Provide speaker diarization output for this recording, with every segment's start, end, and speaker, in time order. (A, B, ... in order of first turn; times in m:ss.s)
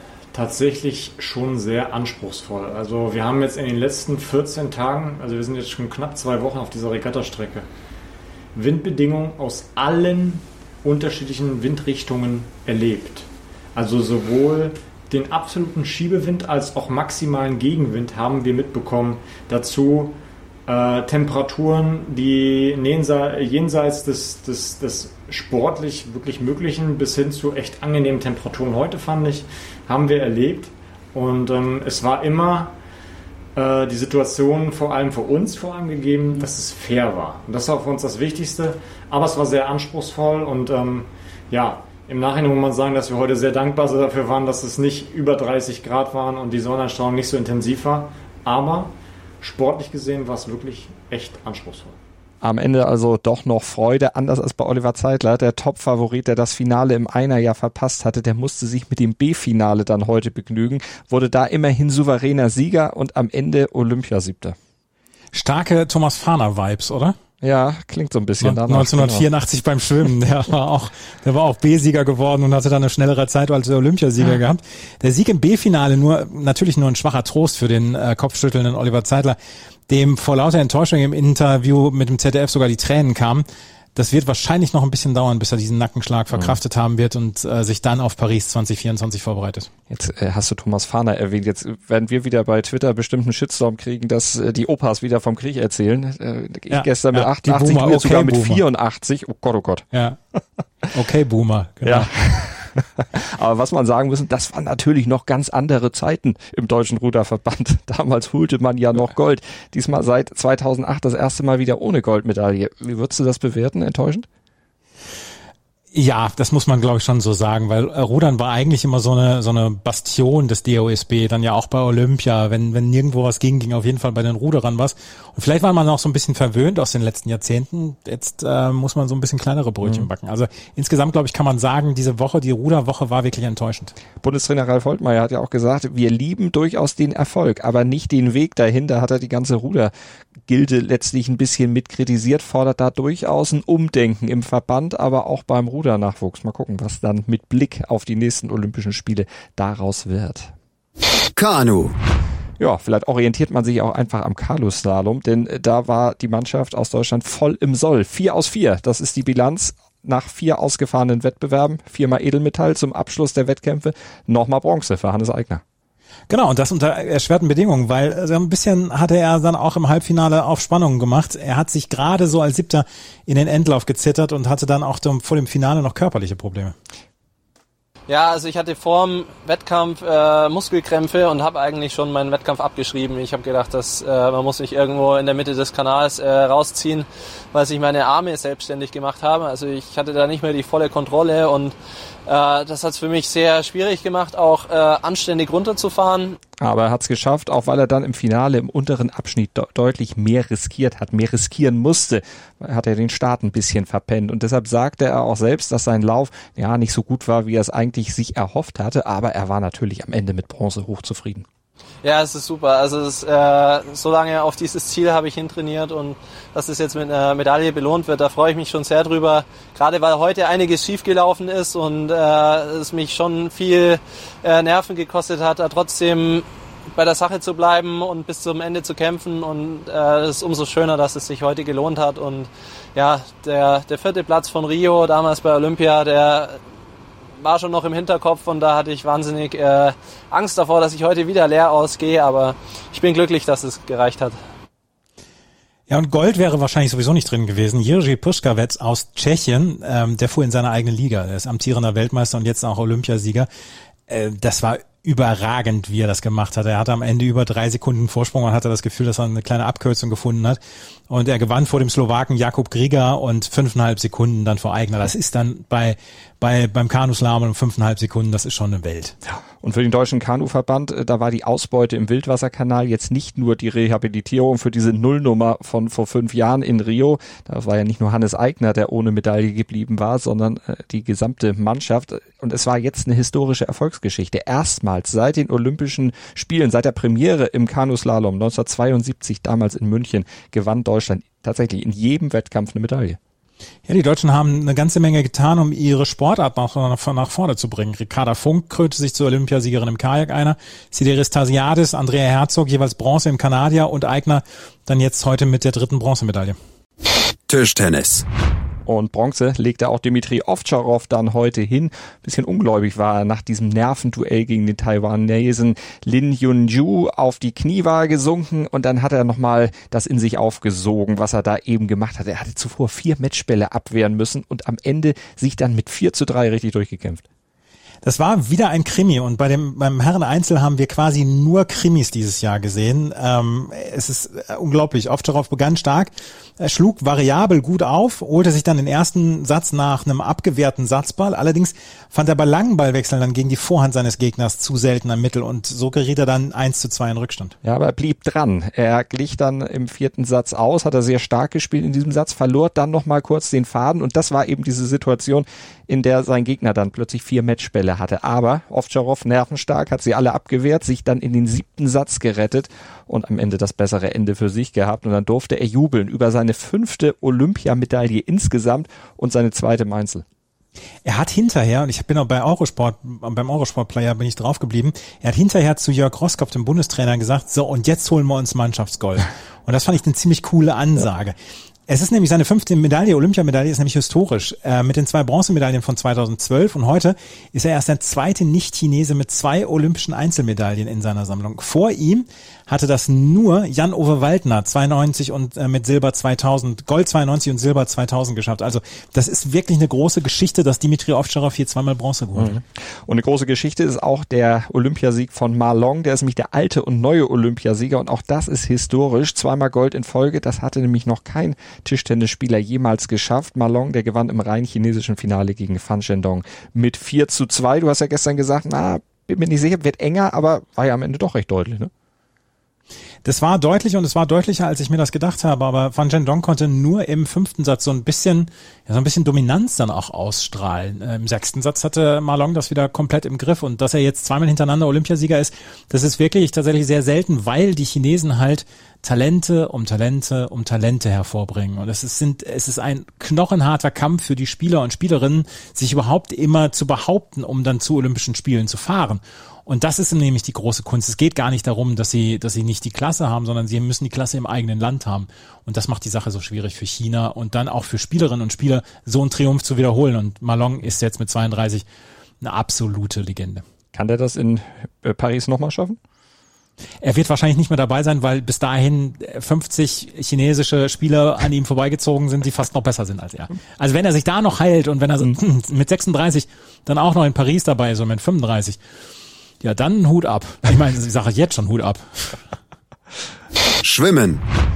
0:00.3-0:07.6 A
0:08.5-0:32.7 A
0:33.6-0:52.0 A
0:52.4-1:04.6 B
1:05.3-1:07.2 C
1:07.4-1:09.3 B
1:08.4-1:19.4 C
1:19.9-1:29.7 C
1:29.9-1:39.9 B
1:36.7-1:38.6 C
1:40.9-1:42.1 C
1:41.8-1:54.3 B
1:55.9-2:13.9 C
2:14.2-2:19.9 B
2:20.5-2:30.5 B
2:31.3-2:32.0 D
2:32.6-2:45.6 B
2:46.3-2:56.7 C
2:58.1-3:11.7 E
3:12.3-3:16.4 E
3:16.6-3:31.4 B
3:32.0-3:56.6 E
3:57.4-4:04.4 E
4:05.9-4:13.5 C
4:14.1-4:29.1 C
4:29.3-4:53.2 B
4:53.9-5:06.6 C
5:07.5-5:08.2 D
5:08.8-5:27.2 B
5:28.0-5:47.5 C
5:47.6-6:10.2 B
6:11.0-6:21.3 C
6:21.9-6:42.6 C
6:42.4-7:01.9 B
7:03.2-7:41.8 C
7:42.4-7:43.6 C
7:43.9-7:46.0 B
7:47.0-7:58.8 C
7:59.6-8:02.4 C
8:03.8-8:04.4 D